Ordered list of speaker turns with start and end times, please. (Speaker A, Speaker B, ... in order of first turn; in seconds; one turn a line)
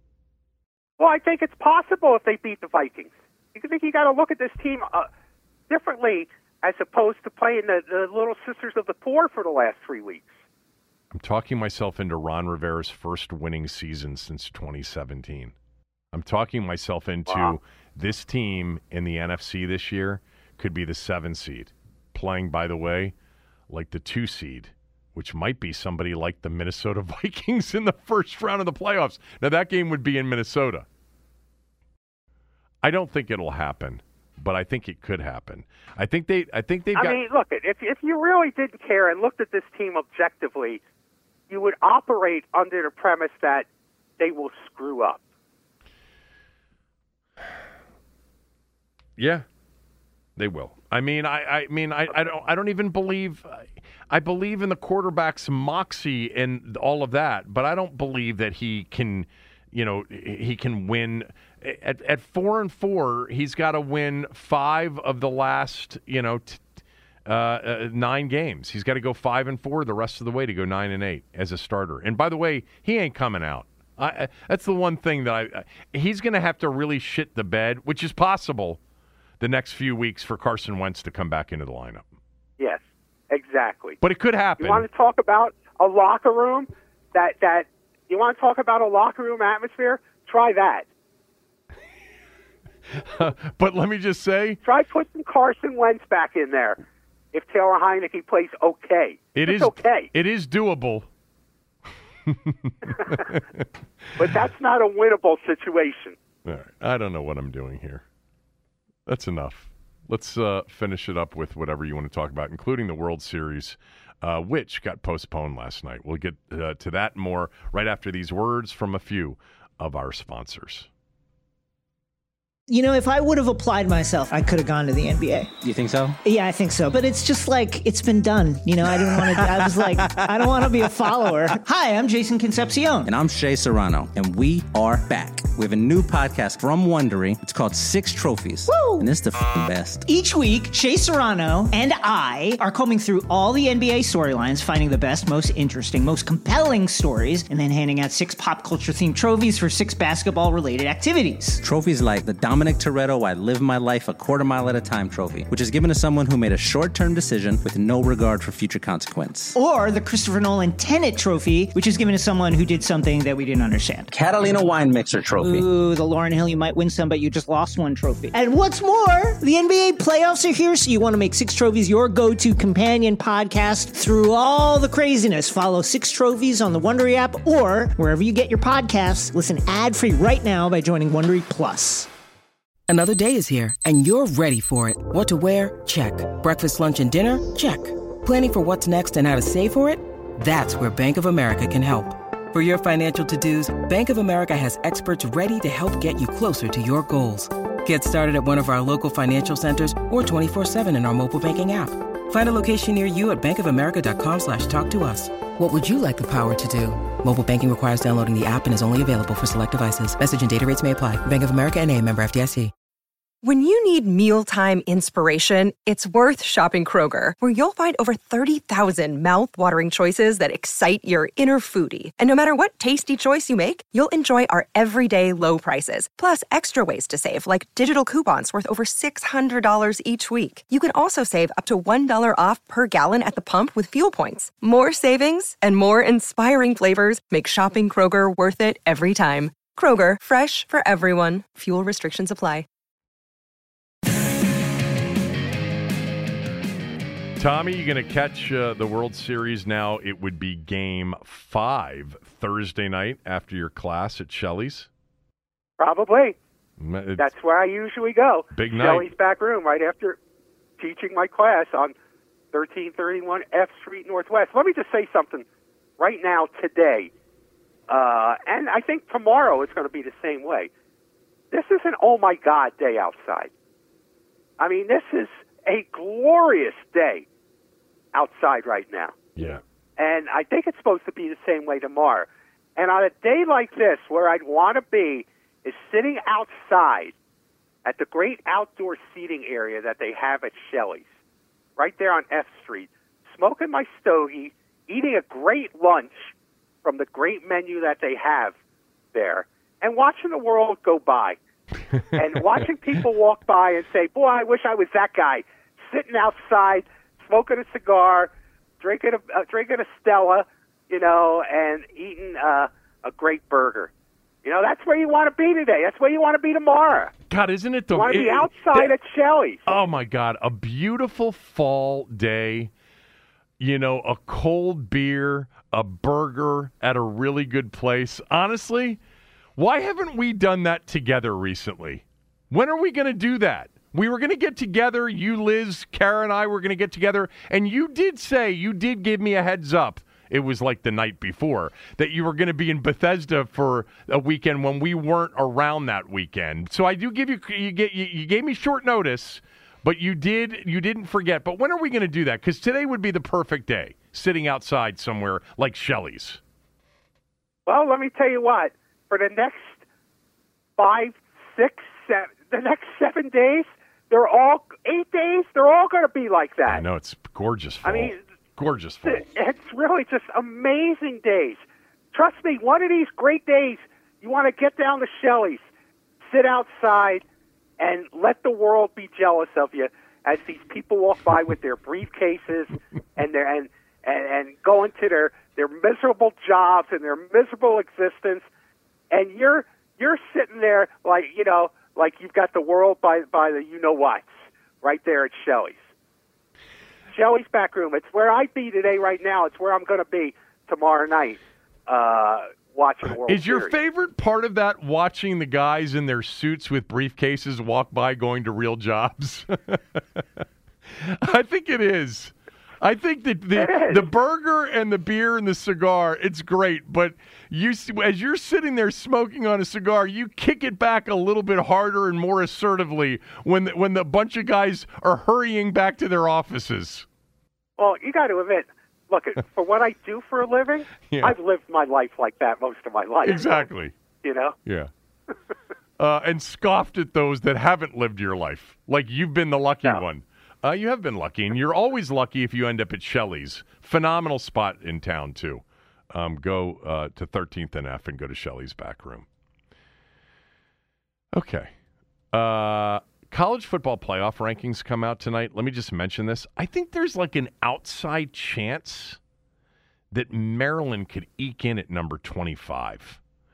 Speaker A: 1.0-5.1
Speaker A: 5.7-10.4
Speaker B: 11.1-15.6
Speaker B: 16.1-23.1
Speaker A: 17.3-17.6
Speaker B: 23.7-30.9
Speaker B: 32.8-37.2
Speaker A: 37.0-40.8
Speaker A: 41.5-43.7
Speaker A: 44.2-45.2
Speaker B: 49.2-49.5
Speaker B: 50.4-66.6
Speaker B: 67.3-78.8
Speaker B: 79.4-82.0
Speaker A: 82.6-84.0
Speaker B: 84.0-84.9
Speaker A: 84.6-90.9
Speaker B: 92.9-94.6
Speaker A: 94.6-96.8
Speaker A: 97.3-100.1
Speaker B: 99.3-101.1
Speaker B: 102.3-103.7
Speaker A: 102.9-103.3
Speaker A: 104.2-106.2
Speaker B: 106.5-108.0
Speaker B: 109.1-120.9
Speaker C: 122.7-125.5
Speaker D: 125.6-126.2
Speaker C: 126.2-133.1
Speaker D: 133.1-140.1
Speaker C: 138.7-139.1
Speaker C: 140.1-151.6
Speaker D: 151.6-159.5
Speaker C: 159.5-164.1
Speaker D: 164.1-165.7
Speaker C: 165.4-182.1
Speaker E: 182.9-212.7
Speaker F: 213.4-242.7
Speaker B: 247.4-254.9
Speaker A: 255.8-256.4
Speaker B: 256.8-257.3
Speaker A: 257.2-260.2
Speaker B: 258.5-259.1
Speaker A: 260.8-261.9
Speaker A: 262.5-265.5
Speaker A: 266.0-267.1
Speaker A: 267.9-270.7
Speaker A: 271.5-273.5
Speaker A: 274.6-277.3
Speaker A: 278.1-279.1
Speaker B: 279.4-279.6
Speaker A: 280.0-287.1
Speaker A: 287.9-291.1
Speaker A: 291.8-296.3
Speaker A: 296.8-298.6
Speaker A: 299.1-301.4
Speaker B: 301.9-302.6
Speaker A: 302.1-313.9
Speaker A: 314.4-317.1
Speaker B: 317.3-318.9
Speaker A: 317.9-319.8
Speaker B: 319.7-322.7
Speaker B: 323.6-329.0
Speaker B: 329.6-356.4
Speaker A: 357.7-359.8
Speaker A: 360.8-366.8
Speaker B: 366.7-369.3
Speaker A: 367.9-368.2
Speaker A: 369.1-371.6
Speaker A: 372.1-375.6
Speaker A: 376.3-377.2
Speaker A: 377.8-388.5
Speaker A: 389.1-395.9
Speaker A: 397.1-403.8
Speaker B: 403.2-427.1
Speaker A: 413.6-414.1
Speaker A: 427.8-433.7
Speaker B: 431.1-431.4
Speaker B: 433.2-433.9
Speaker A: 434.2-434.6
Speaker B: 436.0-449.3
Speaker B: 451.3-451.7
Speaker B: 452.3-459.2
Speaker B: 460.1-463.2